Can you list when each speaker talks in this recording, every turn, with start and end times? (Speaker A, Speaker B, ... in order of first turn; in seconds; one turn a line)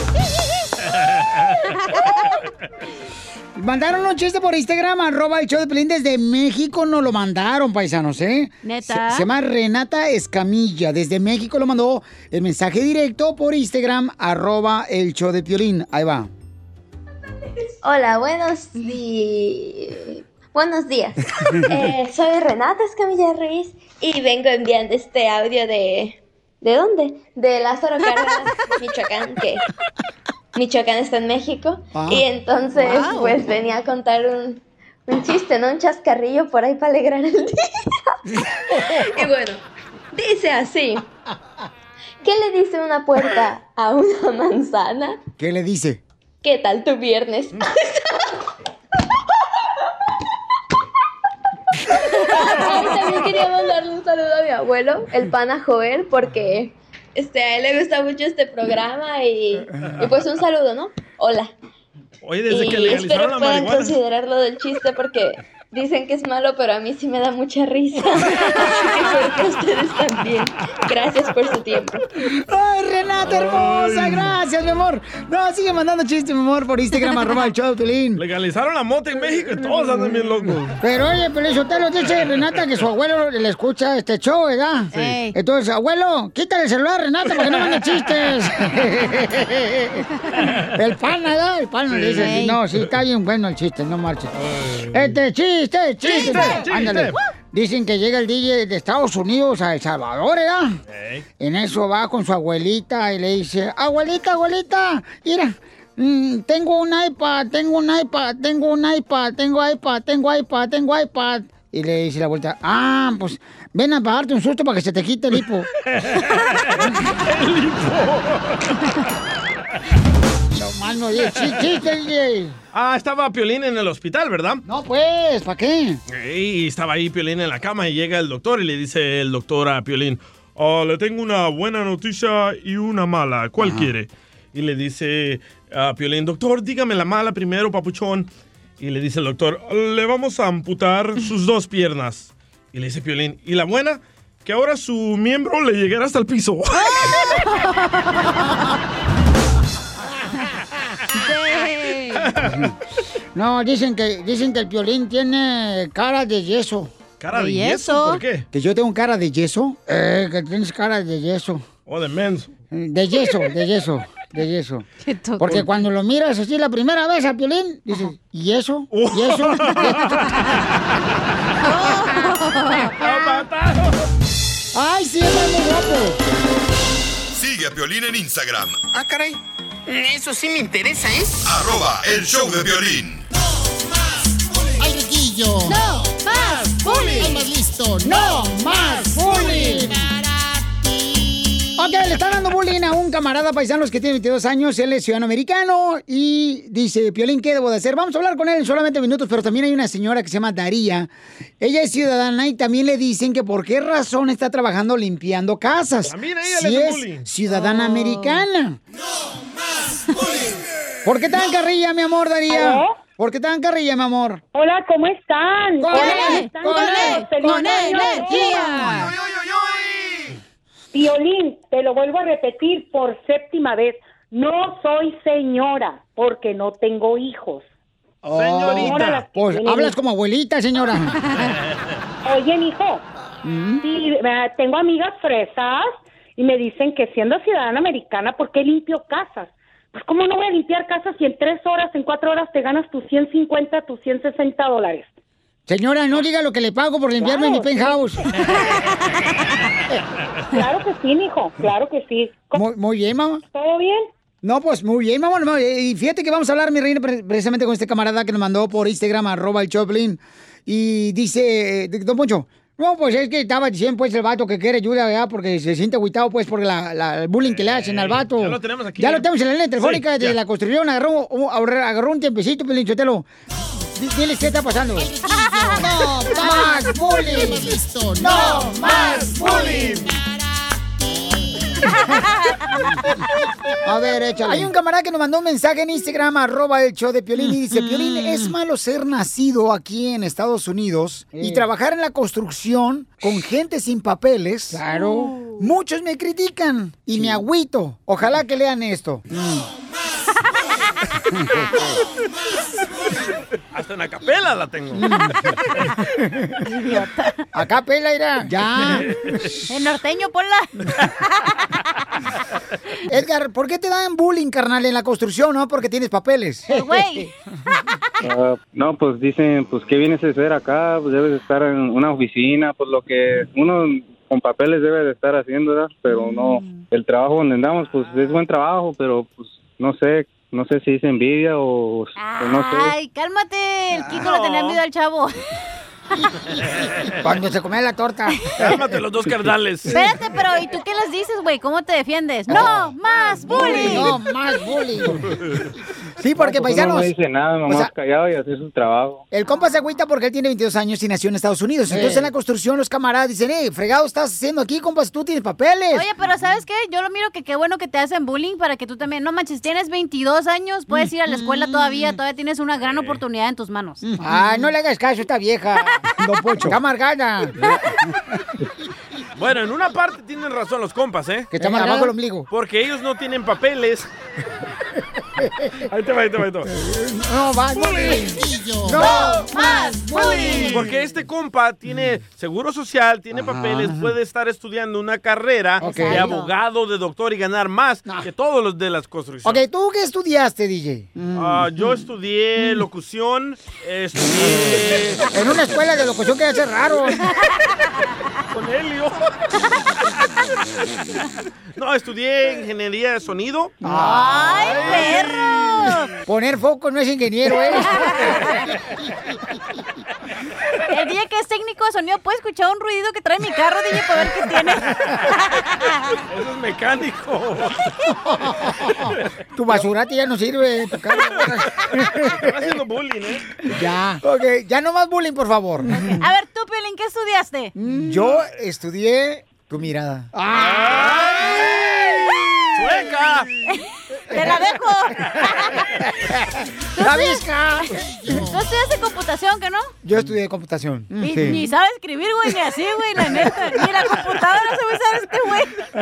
Speaker A: 3.5-16.3
Speaker B: 8.6-9.3
Speaker C: 17.8-29.6
Speaker C: 30.6-39.6
Speaker A: 31.9-32.2
Speaker B: 32.8-33.4
Speaker C: 40.1-41.1
Speaker C: 42.2-45.2
Speaker A: 45.4-46.0
Speaker C: 46.4-48.2
Speaker C: 51.9-61.5
Speaker D: 62.2-64.0
Speaker C: 62.5-72.0
Speaker A: 72.3-78.2
Speaker D: 73.3-74.3
Speaker B: 77.1-77.4
Speaker D: 78.2-80.8
Speaker A: 80.8-90.0
Speaker B: 84.9-85.3
Speaker A: 90.7-94.3
Speaker D: 91.9-92.2
Speaker B: 92.1-92.6
Speaker D: 94.4-95.2
Speaker A: 94.9-100.8
Speaker B: 96.0-96.6
Speaker D: 96.1-97.2
Speaker D: 100.9-101.2
Speaker A: 101.4-115.7
Speaker D: 115.9-118.8
Speaker A: 120.5-122.6
Speaker D: 122.7-124.6
Speaker A: 124.6-126.0
Speaker D: 126.1-138.3
Speaker A: 133.6-133.9
Speaker D: 138.8-147.2
Speaker B: 146.7-148.6
Speaker B: 151.1-152.2
Speaker D: 152.2-152.7
Speaker A: 153.3-156.9
Speaker D: 157.2-158.4
Speaker B: 157.3-158.2
Speaker A: 158.5-161.6
Speaker D: 161.9-162.5
Speaker A: 162.7-164.8
Speaker B: 165.0-165.6
Speaker A: 165.4-170.3
Speaker D: 168.9-170.6
Speaker B: 171.6-173.1
Speaker D: 173.0-174.0
Speaker A: 174.7-176.2
Speaker E: 177.3-178.8
Speaker F: 178.9-181.4
Speaker E: 181.4-183.2
Speaker B: 185.6-187.5
Speaker A: 188.0-190.1
Speaker A: 191.8-208.8
Speaker D: 206.0-207.3
Speaker B: 207.8-208.4
Speaker A: 211.0-214.4
Speaker G: 212.5-212.9
Speaker G: 214.5-218.5
Speaker A: 215.8-219.0
Speaker B: 215.9-219.1
Speaker G: 220.9-227.6
Speaker A: 228.3-231.2
Speaker D: 228.3-229.2
Speaker G: 228.6-229.9
Speaker G: 232.2-233.0
Speaker A: 233.4-233.8
Speaker G: 233.8-245.1
Speaker A: 245.7-248.2
Speaker G: 247.2-248.0
Speaker B: 248.3-249.3
Speaker G: 250.5-252.6
Speaker A: 252.5-253.4
Speaker G: 253.5-254.1
Speaker A: 254.4-273.2
Speaker D: 267.4-269.2
Speaker D: 269.8-270.4
Speaker A: 273.9-280.0
Speaker D: 279.4-280.1
Speaker A: 283.8-299.7
Speaker B: 287.8-288.4
Speaker B: 294.8-295.6
Speaker D: 303.7-305.1
Speaker A: 304.9-305.4
Speaker B: 306.6-307.4
Speaker A: 307.5-309.1
Speaker B: 309.7-311.6
Speaker A: 313.1-316.9
Speaker B: 316.7-317.3
Speaker H: 318.2-332.9
Speaker B: 332.2-335.4
Speaker D: 334.1-334.8
Speaker A: 337.2-338.8
Speaker D: 338.6-340.0
Speaker B: 339.9-344.1
Speaker A: 342.5-342.9
Speaker A: 343.4-345.3
Speaker A: 346.2-347.1
Speaker H: 346.4-349.2
Speaker A: 349.3-356.1
Speaker B: 351.9-352.2
Speaker B: 355.9-364.6
Speaker A: 360.9-362.2
Speaker D: 362.8-363.2
Speaker A: 364.0-367.7
Speaker D: 369.4-371.6
Speaker A: 371.5-372.5
Speaker B: 371.6-372.1
Speaker D: 372.5-374.1
Speaker D: 375.9-376.7
Speaker A: 376.7-380.9
Speaker D: 377.8-378.3
Speaker D: 378.9-379.4
Speaker B: 378.9-380.8
Speaker D: 380.2-389.6
Speaker A: 383.3-384.1
Speaker A: 385.8-386.3
Speaker B: 385.8-386.5
Speaker A: 389.4-391.9
Speaker D: 391.3-395.3
Speaker A: 395.3-397.3
Speaker D: 398.5-399.4
Speaker D: 401.8-403.9
Speaker A: 403.8-404.8
Speaker B: 404.0-406.1
Speaker D: 404.7-405.5
Speaker A: 406.2-408.5
Speaker B: 408.0-408.5
Speaker B: 410.9-416.2
Speaker D: 416.3-417.9
Speaker A: 418.6-422.5
Speaker D: 421.8-423.4
Speaker A: 423.6-426.2
Speaker B: 425.9-427.7
Speaker A: 427.8-432.3
Speaker D: 430.6-431.5
Speaker D: 432.7-433.5
Speaker B: 433.7-435.8
Speaker B: 436.9-437.5
Speaker A: 437.0-438.3
Speaker B: 438.3-439.9
Speaker A: 440.0-441.6
Speaker B: 441.2-445.8